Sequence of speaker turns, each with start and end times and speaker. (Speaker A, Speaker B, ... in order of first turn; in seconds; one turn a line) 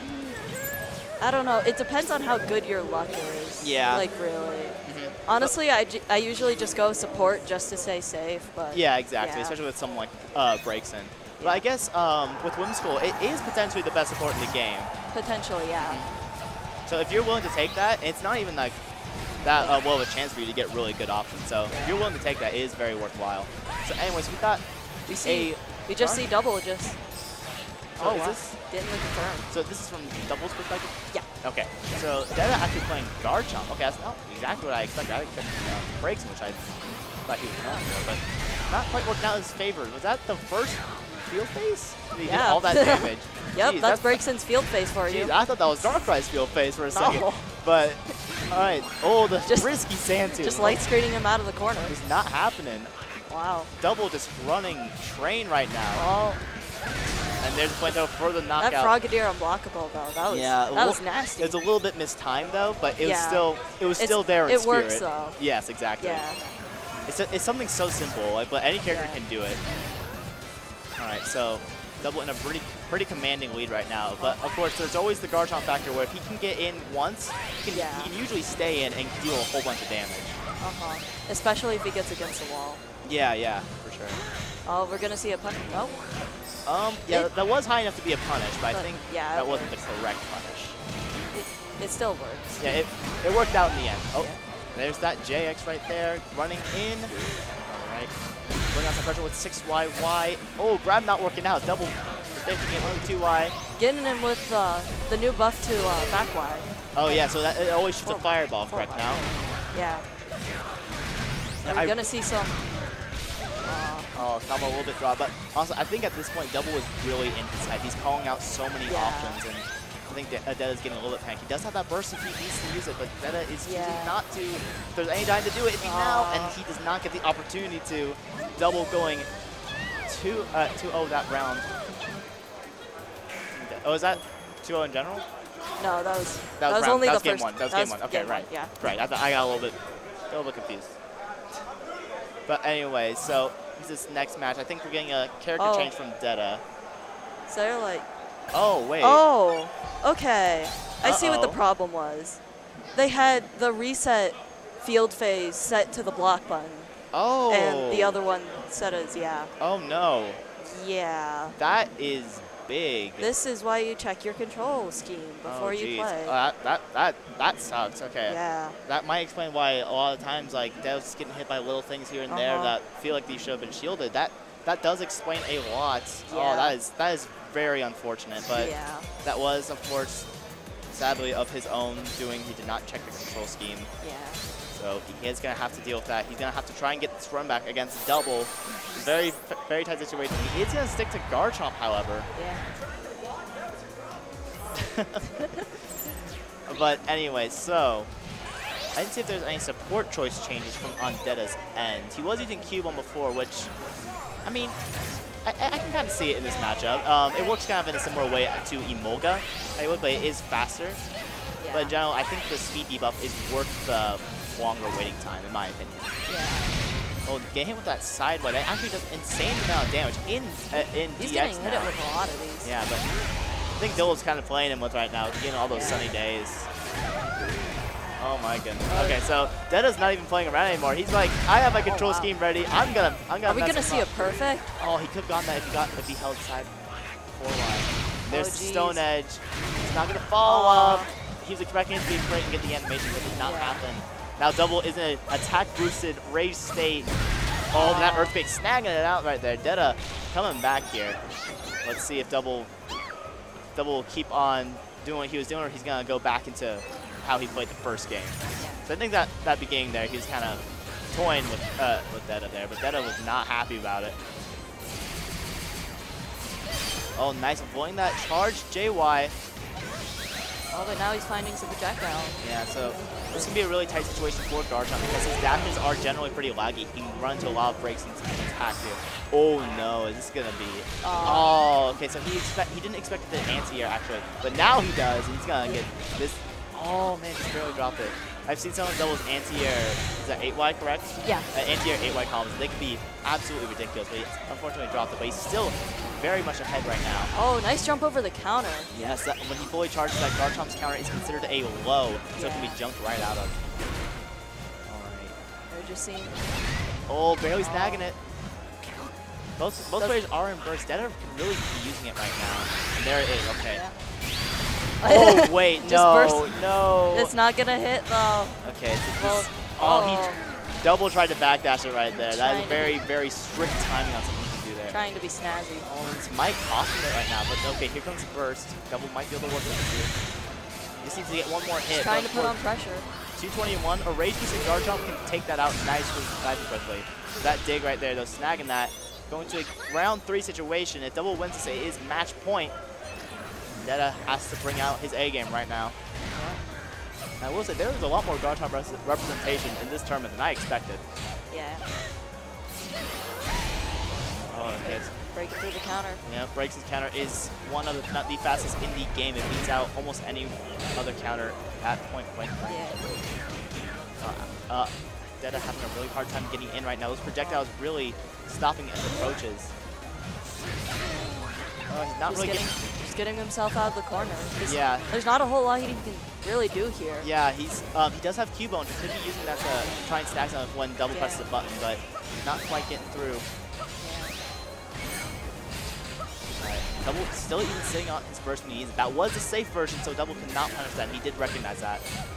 Speaker A: 1.2-9.6
Speaker B: 3.6-4.1
Speaker B: 4.8-5.5
Speaker B: 8.7-14.9
Speaker A: 11.4-11.6
Speaker A: 15.1-16.0
Speaker B: 15.8-16.1
Speaker B: 16.9-18.8
Speaker B: 19.4-24.6
Speaker A: 25.1-27.0
Speaker B: 25.2-26.2
Speaker B: 28.0-28.6
Speaker A: 28.0-29.5
Speaker B: 29.5-36.7
Speaker B: 37.3-44.2
Speaker A: 42.2-45.3
Speaker B: 45.0-50.8
Speaker A: 46.9-47.5
Speaker A: 49.4-49.7
Speaker A: 50.3-52.0
Speaker B: 51.9-52.9
Speaker A: 53.3-53.7
Speaker B: 53.8-56.0
Speaker A: 55.9-56.4
Speaker B: 57.4-58.9
Speaker A: 58.6-61.6
Speaker B: 60.3-66.2
Speaker A: 63.0-65.4
Speaker A: 66.0-66.5
Speaker B: 67.1-69.6
Speaker A: 68.9-69.2
Speaker B: 71.0-80.4
Speaker A: 77.7-78.1
Speaker A: 80.6-82.8
Speaker B: 83.0-84.2
Speaker A: 84.7-86.1
Speaker B: 86.7-90.8
Speaker A: 88.7-89.7
Speaker A: 91.3-92.7
Speaker B: 92.6-98.1
Speaker B: 98.7-103.5
Speaker A: 103.8-107.3
Speaker B: 106.9-109.2
Speaker A: 108.0-110.1
Speaker A: 111.6-112.6
Speaker B: 111.6-112.0
Speaker A: 113.6-114.2
Speaker B: 114.1-129.3
Speaker A: 118.8-119.4
Speaker A: 123.6-124.2
Speaker A: 125.8-126.6
Speaker B: 130.1-131.7
Speaker B: 133.5-135.2
Speaker A: 135.8-138.8
Speaker B: 136.6-139.8
Speaker B: 140.3-141.0
Speaker B: 142.5-146.6
Speaker A: 145.6-145.9
Speaker A: 147.5-148.1
Speaker B: 148.5-149.2
Speaker A: 149.0-152.4
Speaker B: 151.0-151.6
Speaker A: 152.9-156.9
Speaker B: 157.1-158.2
Speaker A: 157.5-159.5
Speaker B: 159.6-160.4
Speaker A: 160.6-161.6
Speaker B: 161.6-163.3
Speaker A: 163.2-166.3
Speaker B: 165.4-180.3
Speaker A: 168.3-168.8
Speaker A: 172.3-172.8
Speaker A: 176.3-176.8
Speaker A: 178.5-179.1
Speaker B: 180.9-183.9
Speaker A: 184.0-184.4
Speaker B: 184.7-192.3
Speaker A: 188.7-189.1
Speaker A: 192.3-192.7
Speaker B: 194.8-195.3
Speaker B: 196.7-198.1
Speaker B: 198.9-203.7
Speaker B: 204.4-204.8
Speaker B: 205.4-211.0
Speaker A: 211.6-211.9
Speaker B: 211.7-216.1
Speaker A: 216.3-216.8
Speaker B: 217.2-222.0
Speaker A: 221.2-222.7
Speaker B: 222.6-223.1
Speaker B: 223.8-226.7
Speaker A: 225.7-226.0
Speaker B: 228.2-234.1
Speaker A: 228.9-229.2
Speaker A: 231.8-232.3
Speaker A: 233.5-234.7
Speaker B: 234.8-236.7
Speaker B: 237.3-247.1
Speaker A: 238.3-239.1
Speaker A: 240.4-241.1
Speaker A: 243.4-243.8
Speaker B: 247.7-251.2
Speaker A: 247.7-248.3
Speaker B: 251.8-252.7
Speaker B: 253.8-264.2
Speaker A: 258.6-258.8
Speaker B: 267.1-269.3
Speaker A: 270.7-272.4
Speaker B: 272.4-297.3
Speaker A: 279.6-279.9
Speaker A: 281.0-281.5
Speaker A: 291.2-291.5
Speaker A: 297.3-298.9
Speaker B: 298.9-303.6
Speaker A: 302.4-302.8
Speaker B: 304.9-305.4
Speaker A: 305.7-306.4
Speaker B: 307.1-308.2
Speaker A: 307.6-308.1
Speaker B: 309.6-313.8
Speaker A: 313.7-314.0
Speaker A: 315.0-316.5
Speaker B: 315.0-317.3
Speaker A: 317.1-318.6
Speaker B: 318.6-320.3
Speaker A: 319.2-320.4
Speaker B: 320.8-325.0
Speaker A: 322.1-323.0
Speaker A: 324.9-325.9
Speaker B: 325.9-330.1
Speaker B: 331.0-332.6
Speaker A: 331.9-333.1
Speaker B: 333.4-342.7
Speaker B: 343.8-345.9
Speaker A: 346.3-346.6
Speaker B: 347.4-351.0
Speaker A: 351.5-351.9
Speaker B: 354.5-355.1
Speaker A: 354.7-356.2
Speaker B: 356.2-362.9
Speaker A: 362.6-363.1
Speaker B: 364.2-369.7
Speaker B: 371.9-372.7
Speaker A: 372.2-377.3
Speaker B: 374.6-375.1
Speaker B: 377.2-383.5
Speaker A: 381.1-381.5
Speaker A: 384.0-384.4
Speaker B: 386.6-392.0